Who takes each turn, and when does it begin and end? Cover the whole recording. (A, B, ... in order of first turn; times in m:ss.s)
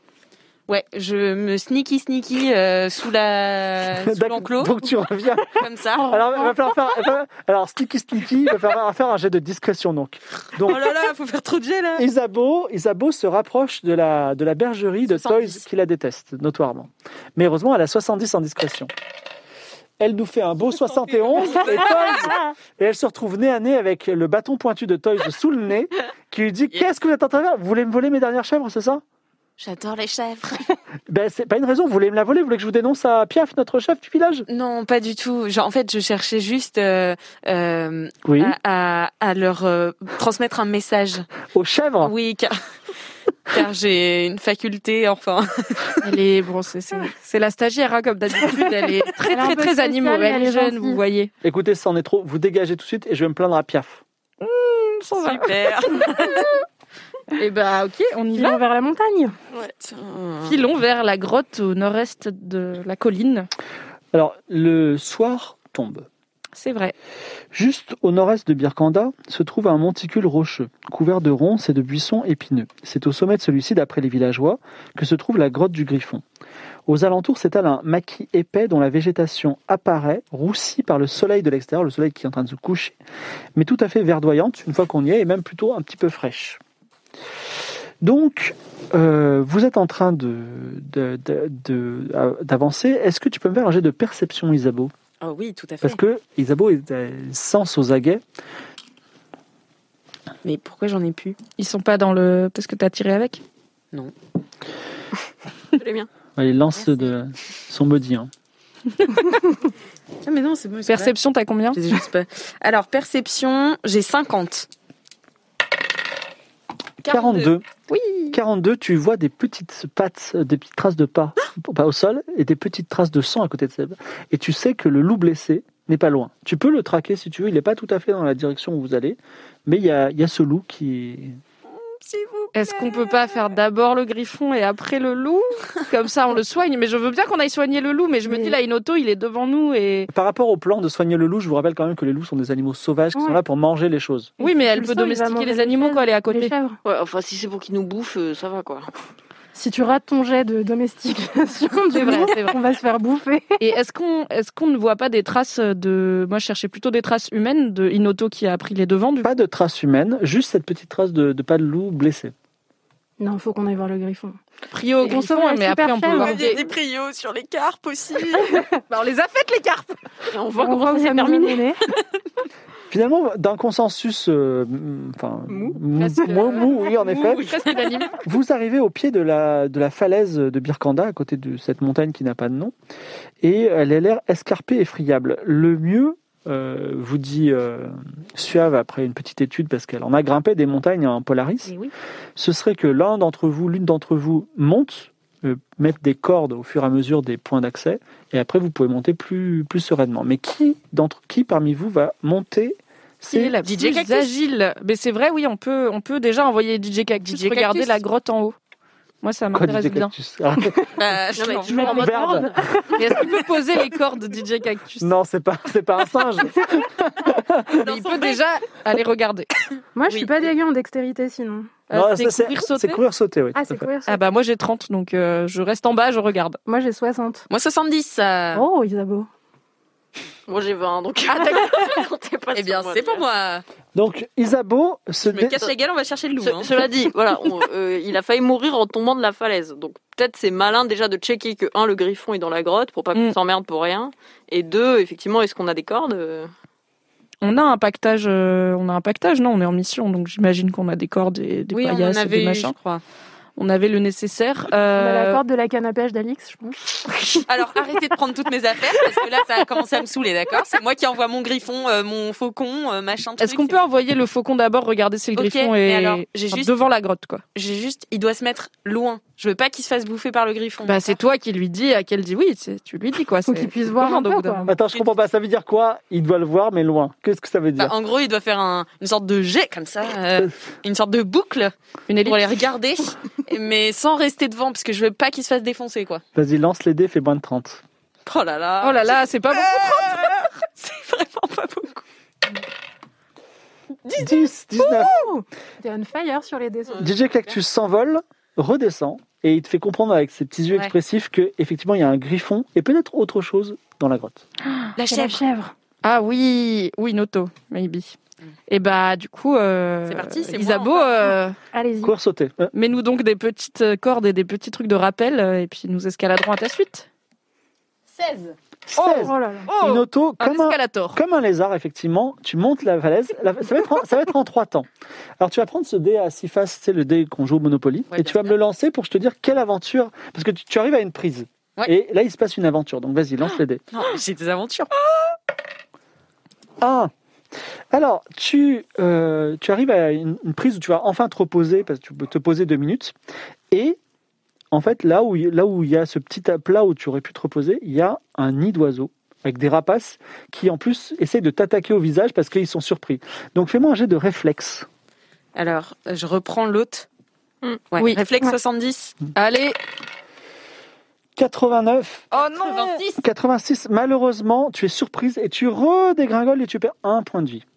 0:00.7-0:04.8 A
0:04.0-0:11.0 B
0:05.6-0:06.2 A
0:06.2-0:06.5 C
0:10.6-0:12.0 A
0:12.0-0:18.9 B
0:15.1-0:15.6 A
0:20.0-0:29.0 B
0:20.8-0:22.3 A
0:29.6-0:30.7 A
0:31.1-0:34.4 B
0:34.5-0:41.3 A
0:38.2-0:38.6 B
0:41.5-0:42.1 B
0:42.0-0:42.5 A
0:43.5-0:46.0 A
0:46.0-0:51.3 D
0:49.2-0:51.0 C
0:51.4-0:54.0 B
0:54.4-0:56.3 D
0:55.2-0:56.4 A
0:57.4-0:58.6 D
0:58.3-0:59.3 C
0:59.7-1:00.6 A
1:00.4-1:03.5 D
1:04.1-1:06.1 B
1:06.6-1:06.9 D
1:07.5-1:16.2 B
1:16.9-1:23.0 B
1:23.6-1:26.6 B
1:28.0-1:34.9 B
1:35.2-1:36.0 A
1:35.8-1:38.2 B
1:40.4-1:41.4 A
1:41.6-1:43.4 D
1:45.8-1:46.1 E
1:46.4-1:48.3 B
1:46.8-1:47.1 A
1:50.2-1:51.2 A
1:50.9-1:51.8 D
1:51.7-1:54.7 A
1:57.0-1:57.6 B
1:57.1-1:58.4 D
1:58.3-2:11.4 B
2:12.0-2:13.2 A
2:12.5-2:20.1 D
2:18.3-2:18.6 C
2:20.1-2:24.3 B
2:23.1-2:23.4 C
2:24.4-2:26.5 D
2:24.4-2:26.8 C
2:26.8-2:28.9 E
2:29.5-2:33.6 C
2:31.9-2:32.6 D
2:33.6-2:39.3 D
2:39.2-2:42.3 B
2:43.2-2:44.4 C
2:44.7-2:46.6 D
2:45.0-2:46.5 C
2:46.0-2:48.6 A
2:48.9-2:50.0 D
2:50.3-2:51.6 E
2:50.6-2:51.8 C
2:52.9-2:57.5 B
2:56.0-2:58.2 D
2:56.4-2:58.1 A
2:58.2-3:02.7 B
3:03.4-3:11.7 B
3:12.4-3:23.6 B
3:23.3-3:28.5 D
3:23.6-3:24.3 A
3:27.2-3:28.0 A
3:29.2-3:30.1 D
3:29.5-3:30.8 B
3:31.0-3:32.5 A
3:31.4-3:32.4 E
3:31.7-3:33.1 C
3:31.9-3:32.6 B
3:33.0-3:35.1 D
3:35.0-3:37.9 B
3:37.7-3:38.4 A
3:37.8-3:39.5 D
3:39.9-3:41.8 C
3:40.1-3:40.5 A
3:41.9-3:43.0 D
3:41.9-3:43.9 B
3:43.5-3:44.2 C
3:44.0-3:46.6 D
3:46.7-3:47.5 C
3:47.5-3:48.7 A
3:48.5-3:49.3 C
3:50.5-3:53.2 E
3:51.4-3:51.8 A
3:52.5-3:53.6 A
3:53.9-3:55.7 B
3:55.2-3:56.8 A
3:56.4-4:06.5 E
4:07.4-4:12.7 D
4:11.7-4:13.0 A
4:13.6-4:15.4 D
4:14.9-4:17.4 C
4:17.5-4:23.8 A
4:23.4-4:27.4 D
4:25.3-4:26.8 A
4:27.5-4:31.2 A
4:30.8-4:34.7 D
4:33.5-4:34.7 C
4:34.7-4:37.9 B
4:34.7-4:35.0 A
4:37.8-4:46.2 A
4:42.1-4:42.7 D
4:46.4-4:47.8 B
4:48.2-4:52.0 A
4:48.8-4:50.4 D
4:54.0-4:55.2 A
4:54.2-4:55.1 B
4:55.0-4:57.1 C
4:57.0-5:04.4 B
5:05.0-5:05.4 A
5:05.0-5:05.7 C
5:06.0-5:08.2 D
5:08.7-5:11.6 D
5:10.1-5:11.4 A
5:11.7-5:12.1 C
5:12.0-5:12.7 B
5:12.7-5:17.1 D
5:18.1-5:18.5 A
5:18.9-5:24.9 B
5:19.0-5:21.2 D
5:19.0-5:19.7 C
5:25.4-5:33.8 B
5:28.1-5:28.5 A
5:33.9-5:34.9 A
5:36.8-5:37.1 B
5:37.9-5:43.1 B
5:43.7-5:44.0 B
5:44.7-5:54.9 B
5:55.5-5:57.1 A
5:57.9-5:59.1 A
5:58.0-5:58.2 D
5:59.3-5:59.8 D
6:01.4-6:02.3 B
6:02.3-6:03.0 D
6:02.3-6:03.2 A
6:03.2-6:07.6 B